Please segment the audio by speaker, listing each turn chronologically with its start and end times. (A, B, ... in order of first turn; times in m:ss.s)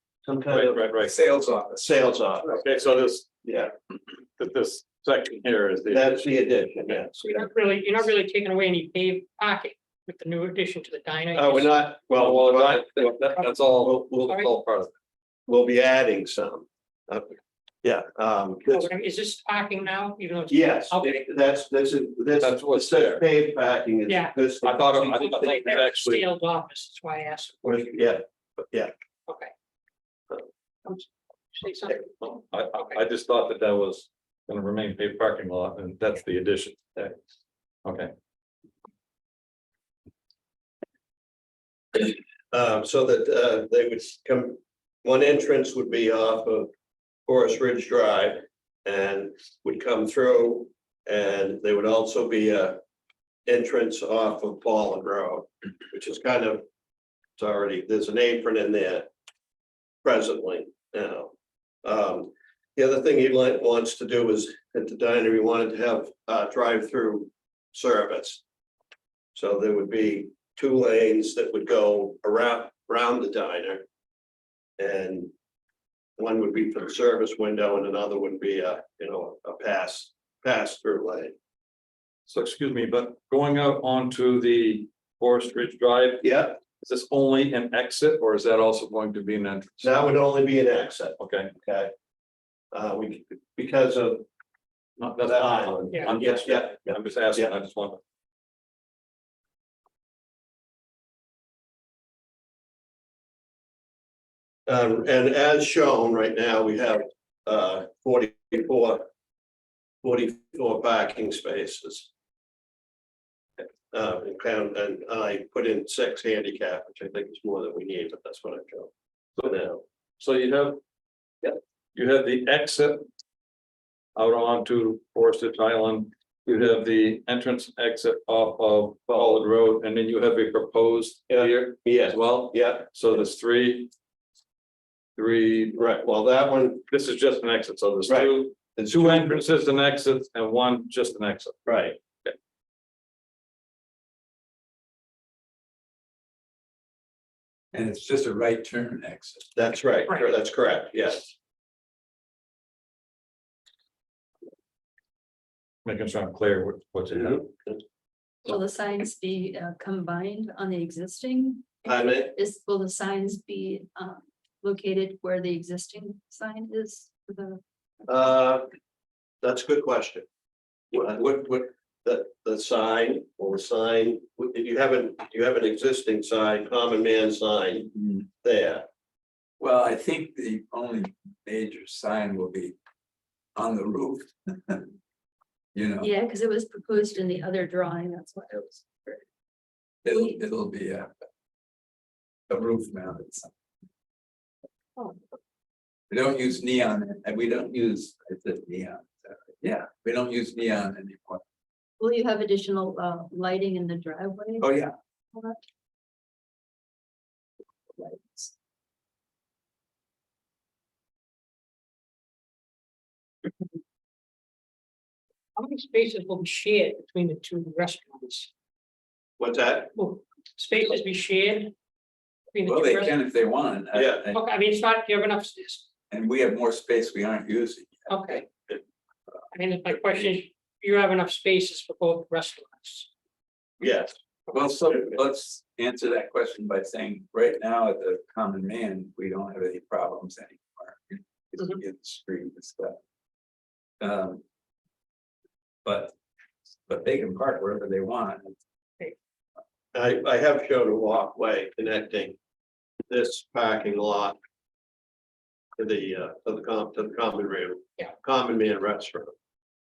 0:00.2-0:00.9 A
0:00.5-0:01.1 B
0:01.0-0:02.0 C
0:01.8-0:02.9 A
0:02.6-0:03.4 B
0:03.4-0:03.7 A
0:04.4-0:06.2 B
0:05.9-0:07.5 A
0:07.2-0:11.8 D
0:11.3-0:14.4 A
0:12.1-0:14.9 B
0:15.5-0:18.9 A
0:18.7-0:21.2 D
0:20.5-0:25.2 A
0:22.4-0:23.2 B
0:24.1-0:24.4 D
0:24.6-0:26.2 B
0:25.0-0:28.1 D
0:27.6-0:28.9 A
0:30.9-0:33.0 D
0:32.5-0:37.2 B
0:37.8-0:38.1 B
0:41.9-0:46.7 A
0:47.3-0:52.8 A
0:53.5-0:56.6 A
0:57.4-0:59.1 A
1:00.0-1:01.3 A
1:01.8-1:08.4 A
1:09.4-1:13.8 A
1:14.8-1:15.3 A
1:16.2-1:21.3 A
1:22.3-1:30.0 B
1:26.2-1:26.6 A
1:29.8-1:31.9 A
1:31.2-1:31.5 B
1:32.7-1:34.2 A
1:35.0-1:38.0 B
1:35.2-1:37.5 A
1:44.7-1:49.0 A
1:50.0-1:52.1 A
1:53.9-1:58.9 A
1:59.4-1:59.8 A
2:00.2-2:00.8 B
2:02.0-2:03.0 B
2:04.2-2:13.9 B
2:09.1-2:09.4 A
2:11.3-2:12.9 A
2:15.2-2:15.8 B
2:15.8-2:16.8 A
2:16.9-2:21.7 B
2:18.1-2:19.4 A
2:21.7-2:22.0 A
2:27.7-2:29.5 C
2:29.6-2:31.4 A
2:35.8-2:37.5 B
2:37.1-2:37.8 A
2:38.4-2:47.6 E
2:41.9-2:42.4 A
2:48.1-2:48.7 A
2:49.4-2:50.2 A
2:50.9-2:57.9 A
2:58.4-2:58.9 A
2:59.6-3:02.8 C
3:03.6-3:04.9 C
3:05.7-3:06.1 C
3:06.0-3:09.2 E
3:10.0-3:11.1 C
3:10.1-3:10.4 E
3:12.5-3:13.5 C
3:16.1-3:21.4 C
3:22.0-3:24.8 E
3:24.6-3:24.9 C
3:25.3-3:25.6 E
3:35.6-3:38.5 D
3:39.4-3:39.9 A
3:40.0-3:41.7 D
3:42.5-3:43.2 D
3:42.6-3:44.4 C
3:43.9-3:44.3 A
3:44.3-3:45.9 D
3:46.1-3:48.2 C
3:48.1-3:48.5 D
3:49.5-3:53.1 D
3:53.8-3:54.2 A
3:54.5-4:03.0 C
3:54.9-3:55.2 A
4:04.0-4:04.4 C
4:05.8-4:06.1 C
4:06.9-4:08.6 C
4:09.9-4:12.4 A
4:13.1-4:14.4 A
4:15.8-4:19.3 A